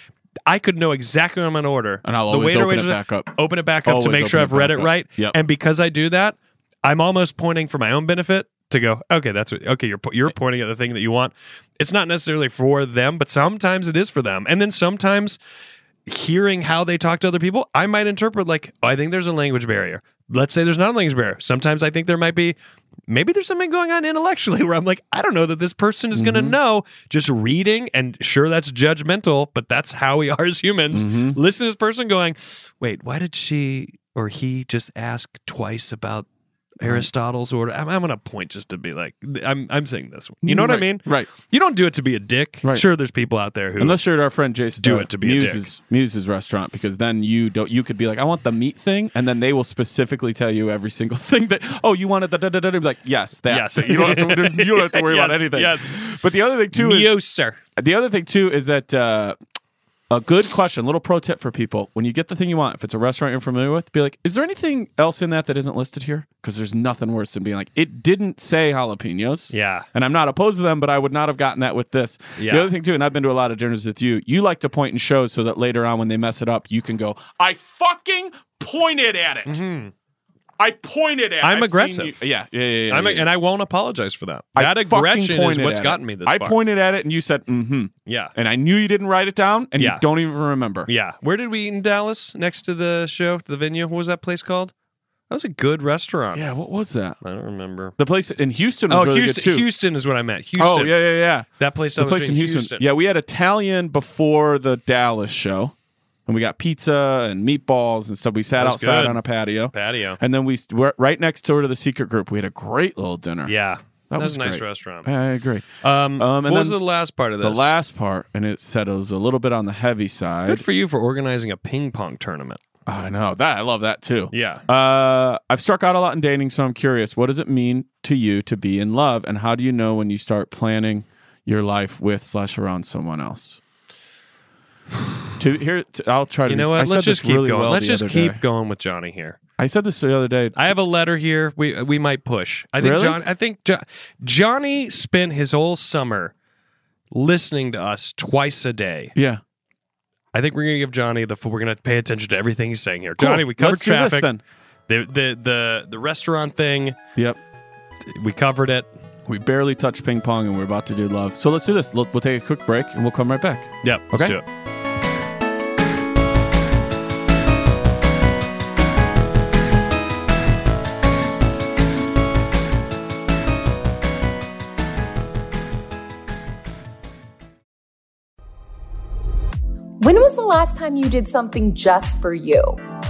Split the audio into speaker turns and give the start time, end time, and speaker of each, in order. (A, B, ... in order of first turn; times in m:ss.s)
0:00.5-0:15.4 A
0:02.0-0:03.3 B
0:03.8-0:05.4 B
0:16.1-0:22.6 A
0:23.1-0:36.3 A
0:26.2-0:26.6 B
0:30.9-0:31.4 B
0:36.8-0:44.0 A
0:40.4-0:41.3 B
0:43.8-0:57.2 B
0:44.8-0:45.7 A
0:53.5-0:56.2 A
0:56.7-0:57.6 A
0:57.8-0:59.4 B
1:00.1-1:19.6 B
1:09.5-1:09.9 A
1:12.4-1:12.7 A
1:19.5-1:19.9 A
1:20.6-1:23.3 B
1:21.4-1:22.2 A
1:22.9-1:26.6 A
1:24.6-1:30.9 B
1:28.1-1:28.3 A
1:29.8-1:30.1 A
1:30.9-1:34.7 A
1:35.3-1:36.5 A
1:36.3-1:37.2 B
1:37.2-1:38.0 A
1:38.0-1:39.7 B
1:38.9-1:42.9 A
1:40.6-1:45.7 B
1:46.3-1:53.5 B
1:48.6-1:50.2 A
1:53.5-1:55.1 A
1:54.1-1:55.7 B
1:55.8-1:57.7 A
1:56.2-1:56.8 B
1:57.4-2:00.6 B
2:00.5-2:02.6 A
2:02.9-2:13.6 B
2:04.3-2:04.6 A
2:15.4-2:18.4 B
2:16.5-2:19.4 A
2:19.6-2:20.7 B
2:20.6-2:26.3 A
2:22.8-2:23.2 B
2:27.1-2:29.1 A
2:29.2-2:29.4 B
2:30.3-2:34.3 A
2:33.2-2:34.4 B
2:34.9-2:37.0 A
2:38.0-2:38.9 A
2:39.3-2:44.4 B
2:43.8-2:44.4 A
3:00.0-3:02.8 C